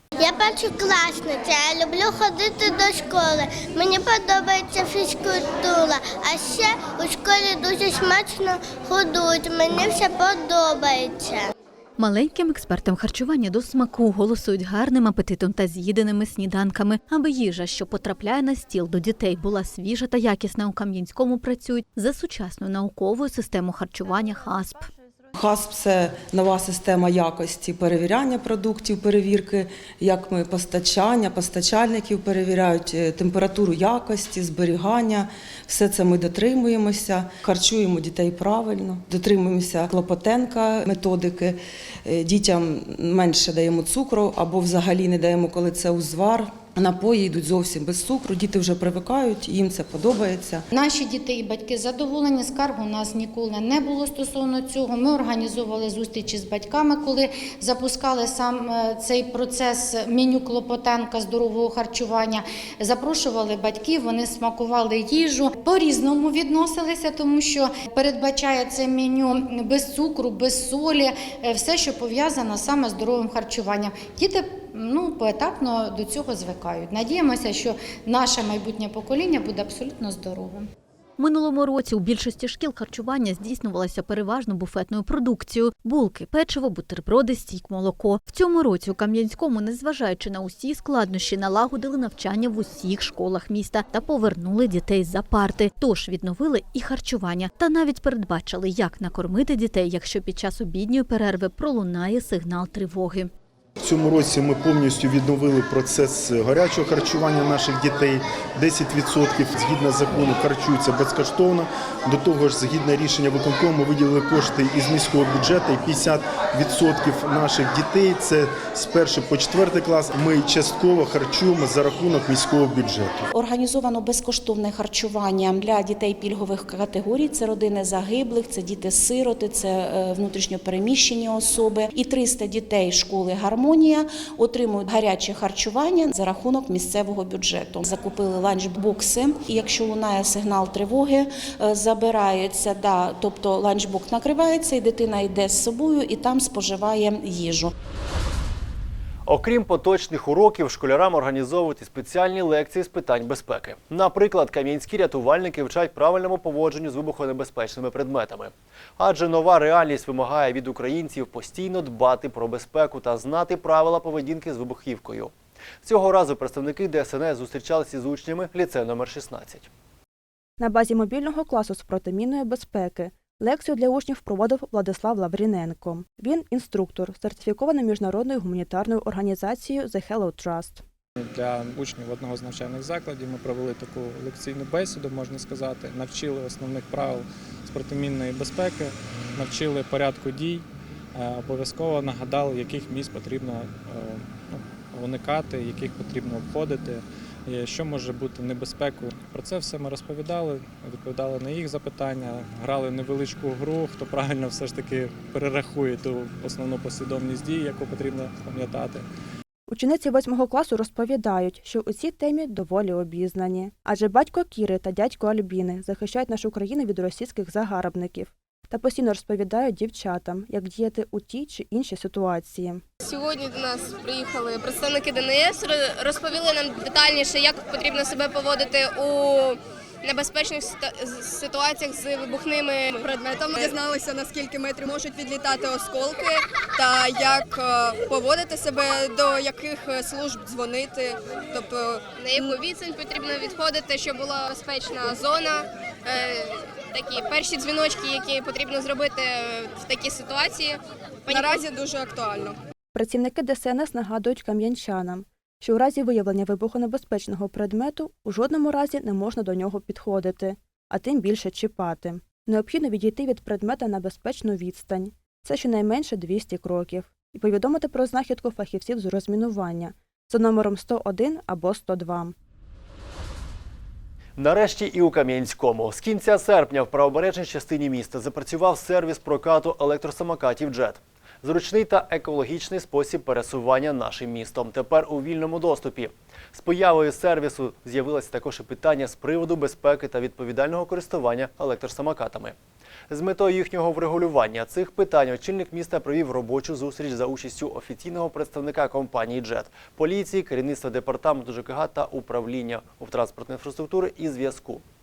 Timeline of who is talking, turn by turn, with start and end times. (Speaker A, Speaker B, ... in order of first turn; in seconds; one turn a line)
Speaker A: 0.2-11.5
Speaker B: 12.0-24.9
Speaker C: 25.4-50.6
Speaker D: 50.7-80.7
Speaker B: 81.2-103.3
Speaker E: 103.8-123.3
Speaker F: 123.3-147.7
Speaker G: 149.3-165.3
Speaker G: 165.8-169.7
Speaker H: 170.6-180.8
Speaker I: 181.2-190.6
Speaker I: 191.2-209.0
Speaker H: 209.7-222.8
Speaker J: 223.0-252.6
Speaker H: 252.9-272.3
Speaker G: 274.4-292.6
Speaker G: 293.1-304.8